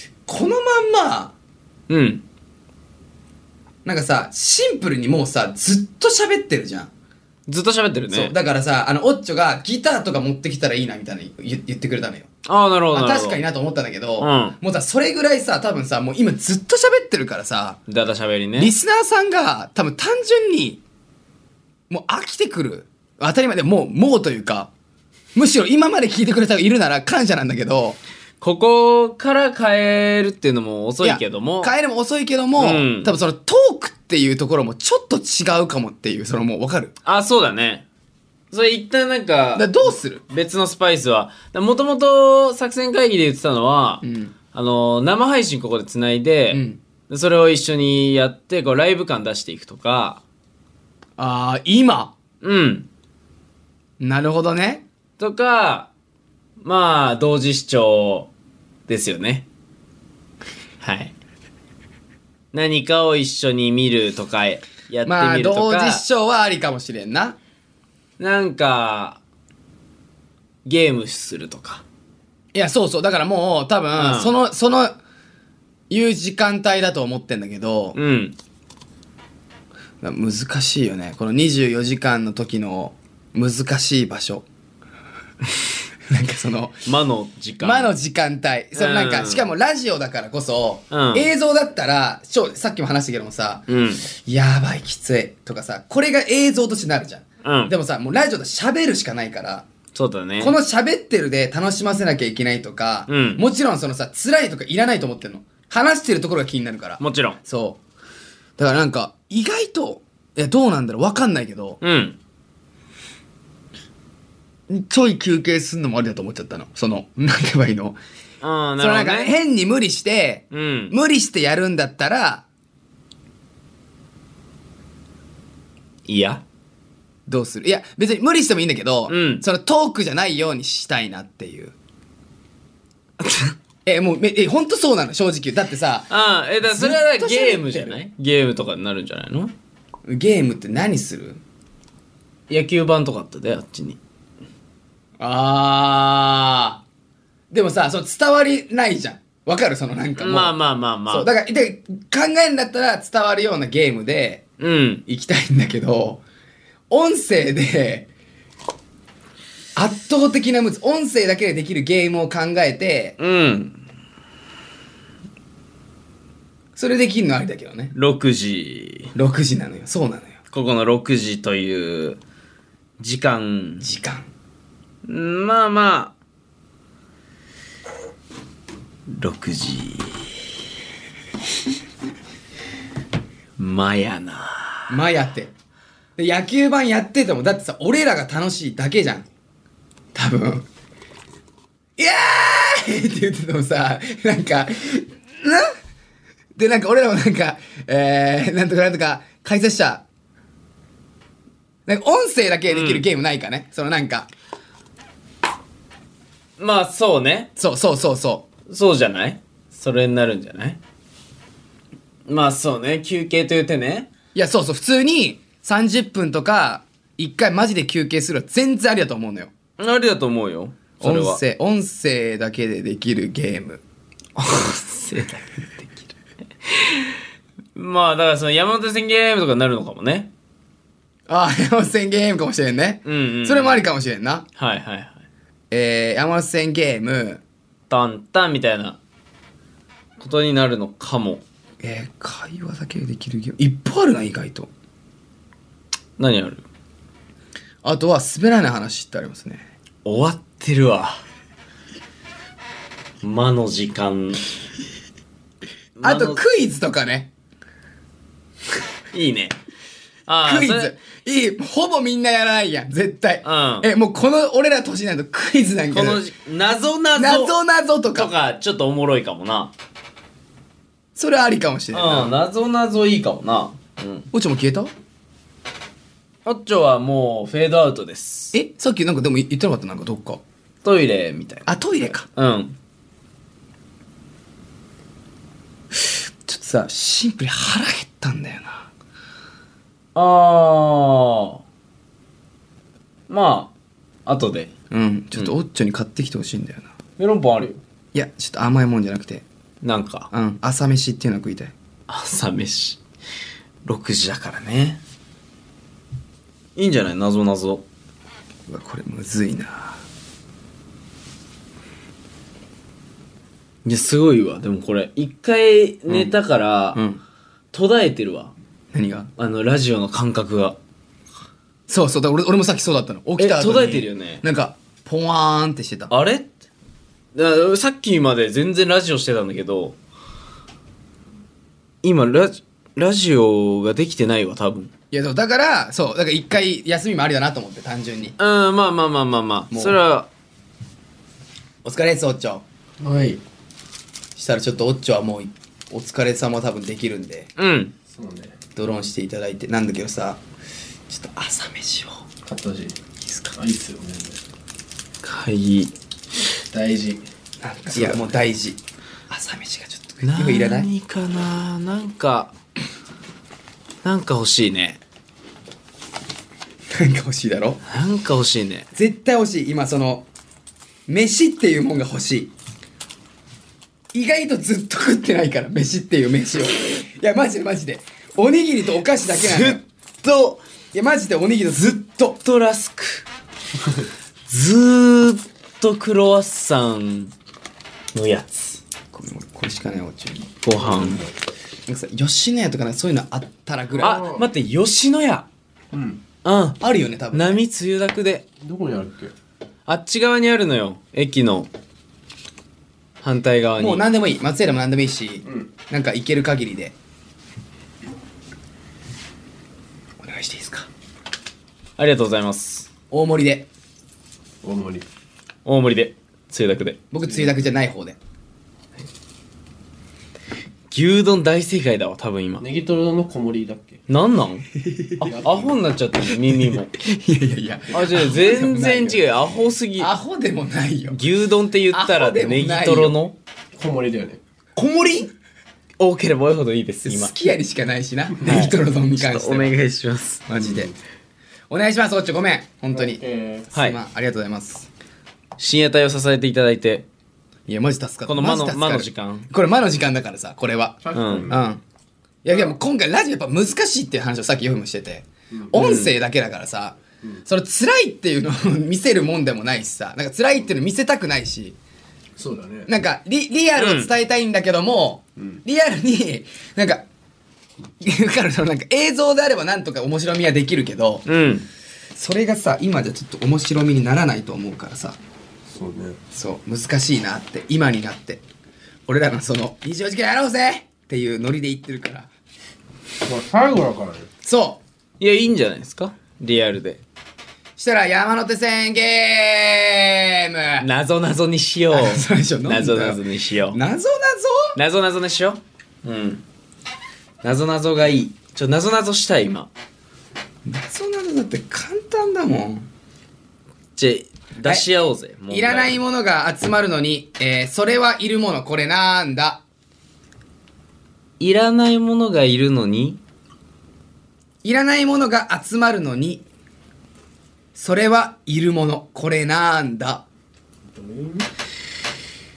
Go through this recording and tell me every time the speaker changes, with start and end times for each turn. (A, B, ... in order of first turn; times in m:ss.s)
0:00.3-0:01.3 A
0:01.9-0:02.2 B
0:03.8-0:06.9 A
0:07.5-0:08.3 B
0:08.1-0:12.3 A
0:12.4-0:13.4 B
0:12.9-0:17.8 A
0:14.2-0:14.6 B
0:17.9-0:18.7 B
0:18.6-0:20.8 A
0:21.9-0:24.7 A
0:25.4-0:28.0 A
0:28.4-0:31.7 B
0:31.0-0:36.9 A
0:32.6-0:33.1 B
0:37.0-0:37.8 B
0:38.5-0:50.2 B
0:39.6-0:40.2 A
0:44.0-0:44.3 A
0:46.5-0:46.8 A
0:51.2-0:52.2 A
0:52.4-0:52.9 B
0:54.0-0:54.8 A
0:55.2-0:55.9 B
0:56.6-0:58.3 B
0:58.9-0:59.4 B
1:00.8-1:01.1 B
1:02.5-1:06.0 B
1:05.0-1:07.4 A
1:08.2-1:09.2 B
1:10.6-1:11.8 B
1:12.5-1:15.0 A
1:14.0-1:14.3 B
1:15.9-1:18.0 A
1:17.9-1:18.4 B
1:20.0-1:24.4 A
1:26.1-1:26.8 A
1:26.8-1:27.9 B
1:27.6-1:39.7 A
1:28.7-1:29.5 B
1:30.9-1:31.3 B
1:33.7-1:34.0 B
1:37.4-1:37.7 B
1:39.9-1:40.6 B
1:40.4-1:47.8 A
1:43.1-1:43.4 B
1:47.0-1:47.4 B
1:48.6-1:51.8 A
1:51.8-1:52.2 B
1:54.7-1:58.0 A
1:58.4-1:59.3 B
1:58.8-2:02.4 A
2:00.5-2:00.9 B
2:06.1-2:06.4 B
2:07.3-2:11.7 A
2:09.1-2:09.4 B
2:13.2-2:13.5 B
2:13.8-2:16.1 A
2:16.1-2:19.5 B
2:16.6-2:18.0 A
2:20.1-2:21.4 A
2:22.5-2:24.0 B
2:25.2-2:26.8 A
2:27.5-2:30.6 A
2:30.2-2:31.3 B
2:31.1-2:34.4 A
2:34.6-2:35.0 B
2:35.1-2:36.2 A
2:36.9-2:38.1 A
2:39.8-2:43.2 A
2:43.2-2:43.8 B
2:46.8-2:47.9 A
2:47.9-2:49.1 B
2:49.1-2:50.4 A
2:50.5-2:52.2 B
2:53.0-2:53.8 B
2:53.8-2:54.3 A
2:55.0-2:56.1 B
2:59.1-3:00.2 B
3:03.6-3:05.0 B
3:04.9-3:05.5 A
3:06.2-3:09.3 A
3:10.1-3:10.7 A
3:12.0-3:15.7 A
3:16.6-3:20.0 A
3:21.9-3:24.3 A
3:22.7-3:23.0 B
3:26.6-3:27.5 B
3:27.6-3:28.5 A
3:28.7-3:30.8 B
3:32.2-3:34.1 B
3:34.3-3:39.5 A
3:39.8-3:41.4 B
3:41.0-3:43.8 A
3:44.4-3:45.9 B
3:46.7-3:47.2 B
3:47.7-3:50.3 B
3:51.3-3:54.4 A
3:53.0-3:53.8 B
3:54.6-3:55.2 B
3:55.7-3:57.4 A
3:57.9-3:59.0 B
4:00.2-4:01.4 B
4:01.8-4:04.7 A
4:06.2-4:06.6 B
4:07.8-4:09.6 A
4:10.0-4:11.2 B
4:13.2-4:14.4 B
4:16.0-4:16.4 B
4:16.0-4:17.3 A
4:19.1-4:19.6 B
4:20.3-4:20.9 B
4:20.4-4:26.2 A
4:23.4-4:23.9 B
4:25.9-4:27.5 B
4:27.1-4:28.3 A
4:28.1-4:29.7 B
4:31.2-4:32.3 A
4:31.9-4:34.3 B
4:34.3-4:34.9 A
4:36.4-4:38.5 B
4:38.5-4:40.4 A
4:40.8-4:42.8 B
4:41.7-4:42.3 A
4:46.5-4:48.9 A
4:50.1-4:51.6 B
4:53.3-4:53.7 B
4:54.2-4:54.7 B
4:54.9-4:56.9 A
4:57.2-4:57.8 B
4:58.1-4:59.4 A
4:59.8-5:00.3 B
5:00.3-5:01.7 A
5:02.1-5:03.0 B
5:03.8-5:05.0 B
5:06.8-5:07.8 B
5:08.7-5:10.0 A
5:13.8-5:17.0 B
5:16.1-5:16.3 A
5:16.9-5:17.2 A
5:17.7-5:18.5 B
5:18.9-5:19.3 A
5:19.4-5:20.8 B
5:21.9-5:26.1 A
5:23.4-5:24.4 B
5:26.1-5:26.5 B
5:27.3-5:30.0 B
5:32.0-5:34.9 B
5:35.1-5:38.4 A
5:38.4-5:40.3 B
5:39.7-5:40.0 A
5:41.8-5:42.6 A
5:43.0-5:43.4 C
5:44.4-5:47.5 A
5:47.6-5:47.9 B
5:48.1-5:48.6 C
5:48.8-5:50.4 A
5:51.1-5:52.2 A
5:52.4-5:53.0 C
5:53.5-5:54.4 C
5:55.2-5:55.9 B
5:56.7-5:57.2 C
5:57.6-6:00.9 A
6:00.2-6:02.5 B
6:04.0-6:05.0 B
6:06.9-6:07.8 A
6:07.8-6:08.9 B
6:08.9-6:10.3 A
6:11.1-6:12.5 A
6:14.1-6:19.8 A
6:19.3-6:20.6 B
6:20.9-6:22.4 A
6:22.4-6:23.2 B
6:24.5-6:27.3 B
6:28.1-6:28.8 B
6:29.1-6:30.6 A
6:30.6-6:31.2 B
6:30.8-6:31.3 C
6:31.9-6:34.2 A
6:33.9-6:34.5 C
6:34.0-6:35.4 B
6:35.9-6:36.2 C
6:36.4-6:36.8 B
6:36.8-6:37.6 A
6:37.3-6:38.4 B
6:38.6-6:39.3 C
6:39.8-6:41.7 B
6:43.2-6:44.0 B
6:43.8-6:47.0 A
6:50.2-6:50.9 A
6:52.0-6:52.9 B
6:53.1-6:53.7 A
6:54.6-6:55.1 C
6:55.6-6:57.0 B
6:57.1-6:58.2 A
7:00.9-7:02.6 B
7:02.6-7:04.0 C
7:04.1-7:04.6 B
7:04.8-7:05.3 A
7:05.2-7:05.8 C
7:05.4-7:07.0 B
7:07.0-7:09.2 A
7:07.9-7:10.1 B
7:10.0-7:11.2 A
7:11.1-7:13.3 B
7:11.9-7:13.2 A
7:13.7-7:14.4 C
7:14.8-7:15.3 B
7:16.0-7:17.3 B
7:17.0-7:19.7 A
7:18.4-7:20.4 B
7:20.5-7:20.9 A
7:20.6-7:20.9 C
7:21.7-7:24.9 A
7:22.9-7:23.7 C
7:25.6-7:27.0 B
7:27.7-7:31.8 A
7:28.3-7:29.5 B
7:31.0-7:31.6 C
7:31.1-7:31.5 B
7:32.4-7:41.8 A
7:35.7-7:36.1 B
7:42.4-7:42.9 C
7:42.9-7:47.0 A
7:43.8-7:44.1 B
7:48.0-7:51.2 A
7:51.2-7:51.7 B
7:52.2-7:55.2 A
7:55.7-7:56.2 C
7:56.3-7:58.4 A
7:59.1-8:02.3 A
8:03.2-8:04.3 C
8:04.4-8:04.8 A
8:05.2-8:07.0 B
8:07.8-8:10.9 A
8:10.8-8:13.8 B
8:11.9-8:14.8 A
8:14.8-8:16.4 B
8:17.4-8:19.7 B
8:20.6-8:22.9 A
8:24.0-8:26.0 B
8:24.6-8:24.9 A
8:25.5-8:29.6 A
8:31.4-8:33.2 B
8:34.6-8:36.4 A
8:37.7-8:40.2 A
8:40.9-8:41.5 C